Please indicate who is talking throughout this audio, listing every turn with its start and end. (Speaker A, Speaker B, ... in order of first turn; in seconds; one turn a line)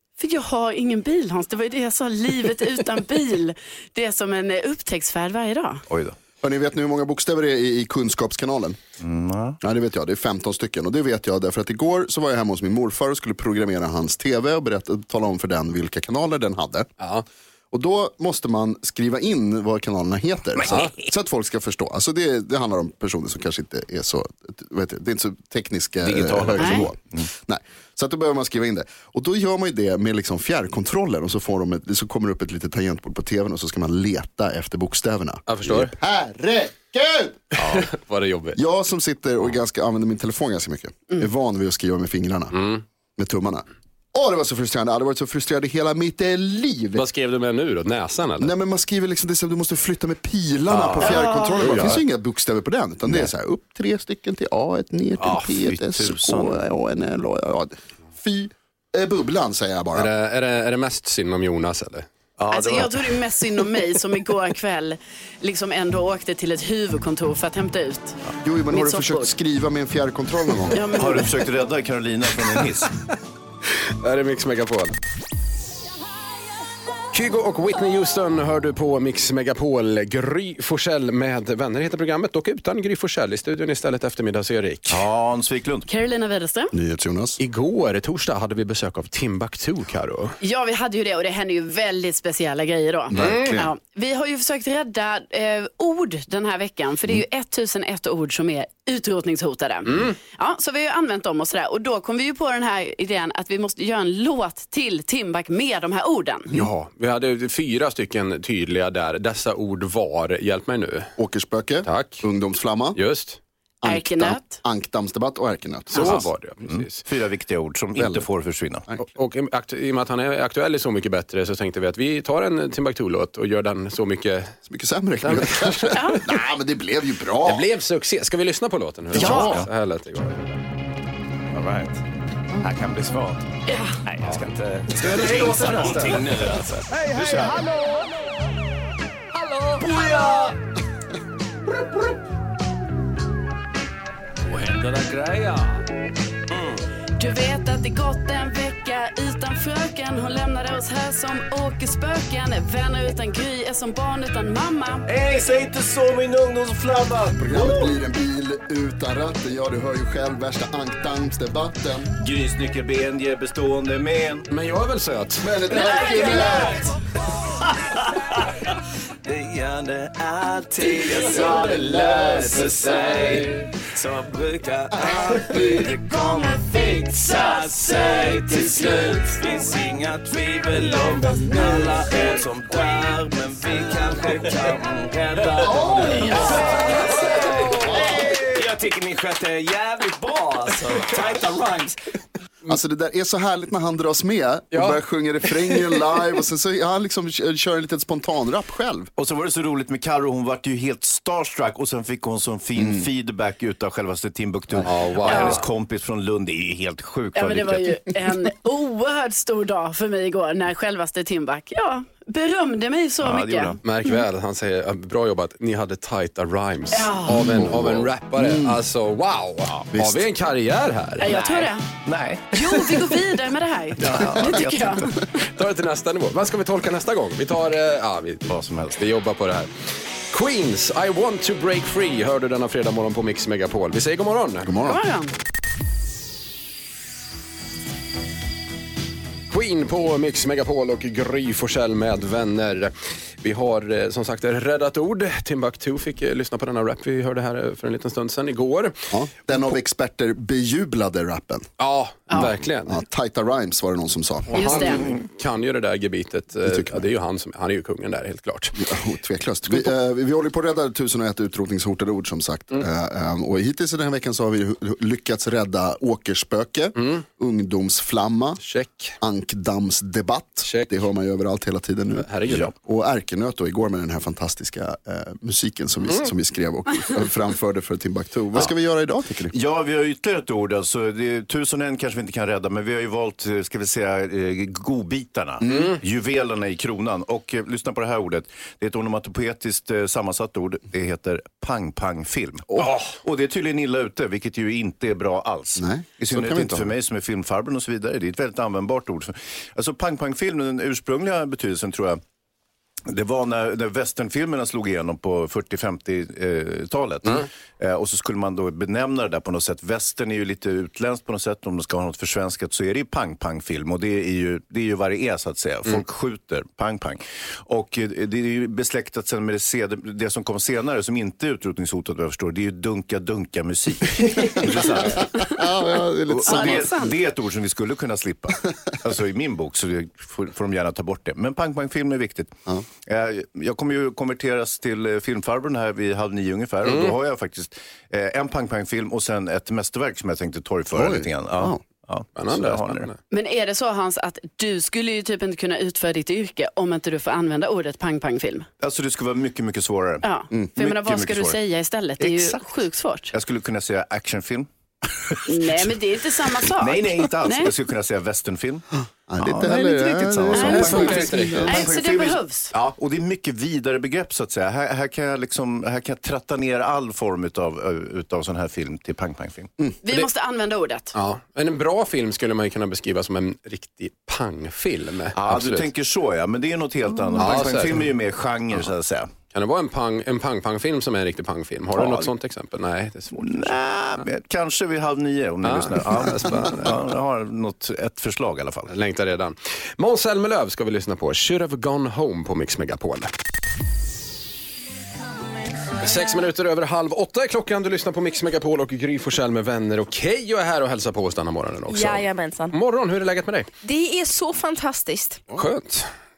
Speaker A: 0.2-5.8
Speaker B: 5.9-6.2
Speaker C: 6.4-8.8
Speaker B: 9.0-9.6
Speaker C: 9.6-16.9
Speaker D: 17.0-17.2
Speaker C: 17.7-37.5
Speaker D: 20.7-20.9
Speaker B: 26.0-27.3
Speaker A: 26.6-26.9
Speaker D: 35.5-35.9
Speaker D: 37.6-38.6
Speaker B: 37.6-37.9
Speaker C: 38.5-42.6
Speaker D: 42.5-42.8
Speaker C: 43.2-47.0
Speaker D: 47.0-48.5
Speaker C: 48.4-60.1
Speaker D: 50.7-52.0
Speaker A: 51.0-51.8
Speaker B: 55.2-56.6
Speaker D: 60.0-62.1
Speaker B: 62.4-63.3
Speaker A: 62.5-68.2
Speaker C: 68.4-70.8
Speaker A: 68.7-69.3
Speaker A: 70.7-71.3
Speaker B: 71.0-72.9
Speaker D: 74.0-75.0
Speaker D: 77.1-85.0
Speaker B: 84.9-85.9
Speaker A: 85.9-86.7
Speaker C: 86.7-87.4
Speaker D: 87.4-90.4
Speaker A: 90.4-106.5
Speaker C: 93.1-93.7
Speaker D: 93.2-93.6
Speaker D: 99.9-100.2
Speaker D: 106.5-111.1
Speaker C: 111.2-113.0
Speaker D: 111.8-112.2
Speaker D: 113.0-113.4
Speaker C: 113.8-116.2
Speaker A: 113.8-114.6
Speaker D: 115.9-117.0
Speaker B: 116.0-118.9
Speaker C: 118.0-118.2
Speaker D: 119.1-124.5
Speaker C: 124.7-127.7
Speaker D: 125.2-126.2
Speaker A: 125.9-126.2
Speaker D: 127.4-130.6
Speaker C: 129.1-129.7
Speaker B: 129.1-129.7
Speaker B: 131.5-132.0
Speaker B: 132.6-133.4
Speaker A: 133.7-134.0
Speaker B: 134.1-137.6
Speaker D: 134.2-136.4
Speaker D: 137.1-137.5
Speaker B: 139.8-140.4
Speaker B: 144.5-145.3
Speaker A: 147.2-155.0
Speaker B: 155.1-157.9
Speaker C: 157.4-162.1
Speaker B: 162.2-164.5
Speaker D: 164.5-165.5
Speaker C: 165.4-166.9
Speaker B: 165.7-166.9
Speaker B: 169.2-192.0
Speaker C: 174.9-175.9
Speaker C: 185.6-186.6
Speaker C: 187.7-188.4
Speaker C: 192.7-199.1
Speaker D: 194.7-195.0
Speaker D: 195.6-196.0
Speaker B: 199.2-208.0
Speaker C: 202.8-203.1
Speaker D: 204.8-205.7
Speaker A: 207.3-214.2
Speaker B: 213.2-213.8
Speaker D: 213.8-221.4
Speaker A: 216.9-217.4
Speaker C: 217.3-218.8
Speaker C: 219.9-220.2
Speaker A: 221.2-221.8
Speaker B: 221.3-221.5
Speaker B: 222.1-223.0
Speaker A: 222.5-225.2
Speaker B: 224.0-225.2
Speaker D: 225.4-229.7
Speaker B: 228.5-229.0
Speaker D: 230.3-234.7
Speaker C: 234.7-235.0
Speaker A: 234.8-235.3
Speaker D: 239.5-248.9
Speaker C: 249.1-251.7
Speaker D: 251.8-253.0
Speaker C: 252.4-255.0
Speaker D: 254.5-258.8
Speaker A: 254.5-255.1
Speaker C: 256.6-257.0
Speaker C: 258.8-268.6
Speaker D: 267.0-267.2
Speaker D: 268.6-269.2
Speaker C: 269.2-279.5
Speaker D: 270.6-270.9
Speaker D: 272.2-272.7
Speaker B: 279.5-302.2
Speaker C: 285.6-285.9
Speaker D: 285.7-285.9
Speaker C: 295.8-296.9
Speaker B: 303.1-325.4
Speaker C: 324.6-326.9
Speaker B: 326.3-343.1
Speaker A: 326.4-327.1
Speaker D: 336.9-337.1
Speaker C: 340.9-341.8
Speaker D: 342.4-343.2
Speaker A: 343.3-348.7
Speaker B: 348.8-351.6
Speaker A: 350.2-353.3
Speaker B: 352.2-352.7
Speaker B: 353.3-355.9
Speaker A: 355.5-357.7
Speaker B: 356.8-358.9
Speaker C: 359.3-361.9
Speaker B: 359.4-369.7
Speaker A: 360.5-362.7
Speaker D: 360.6-361.7
Speaker A: 370.0-371.1
Speaker D: 371.1-375.9
Speaker B: 375.4-379.3
Speaker D: 377.4-378.1
Speaker D: 379.5-383.8
Speaker B: 381.9-382.3
Speaker B: 383.4-388.9
Speaker D: 385.6-387.0
Speaker D: 388.9-393.3
Speaker D: 396.0-403.7
Speaker E: 401.9-402.8
Speaker E: 403.8-405.4
Speaker D: 405.6-406.1